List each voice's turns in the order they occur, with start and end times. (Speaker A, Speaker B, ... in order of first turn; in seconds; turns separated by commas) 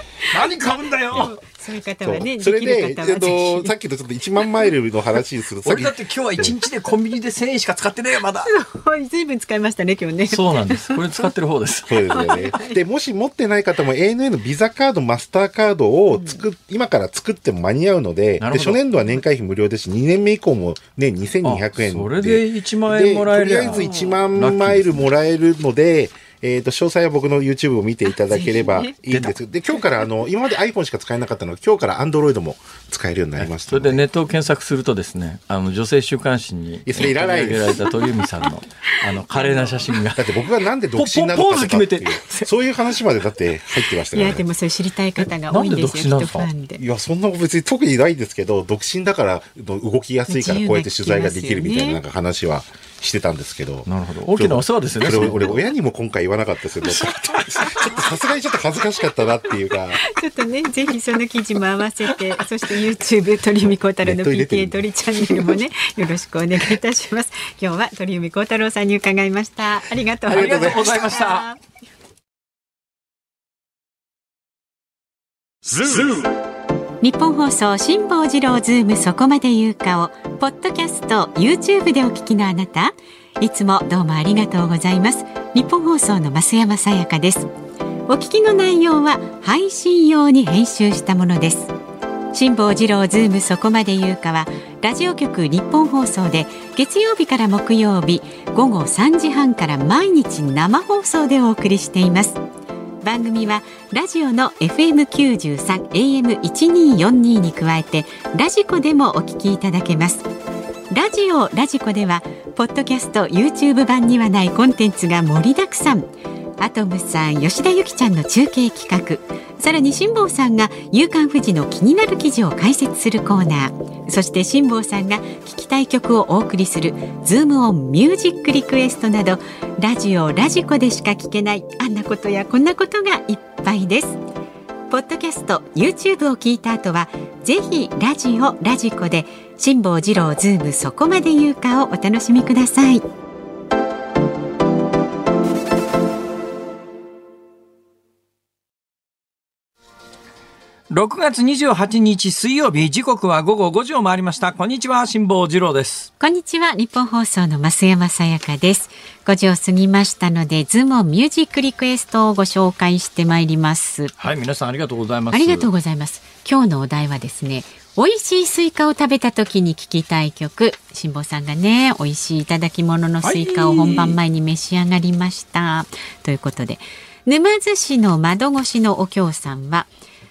Speaker A: 0.2-1.3, Speaker B: 1.1-3.7, Speaker C: 2.0-6.6, Speaker A: 5.6-8.5, Speaker B: 8.4-11.3, Speaker A: 10.3-12.3, Speaker C: 11.9-34.0, Speaker B: 12.1-12.8, Speaker B: 16.1-16.4, Speaker A: 18.4-18.8, Speaker A: 21.4-25.1, Speaker B: 28.3-28.9, Speaker A: 29.1-29.4, Speaker A: 33.4-40.3, Speaker C: 36.9-37.9, Speaker C: 40.2-44.5, Speaker A: 41.0-42.5, Speaker B: 44.1-46.8, Speaker A: 45.5-46.5, Speaker C: 46.8-60.0, Speaker B: 50.3-52.0, Speaker A: 53.9-55.7, Speaker A: 57.0-57.9, Speaker B: 60.0-71.6, Speaker C: 64.0-65.5, Speaker A: 70.3-71.5, Speaker A: 75.8-76.3, Speaker B: 77.0-87.5, Speaker B: 88.1-91.7, Speaker B: 92.3-102.4, Speaker B: 103.0-110.3, Speaker B: 110.9-116.1, Speaker B: 116.6-134.2, Speaker B: 134.9-143.1, Speaker A: 150.9-156.1, Speaker B: 156.2-164.1, Speaker A: 164.2-165.7, Speaker B: 165.3-179.9, Speaker A: 173.2-174.2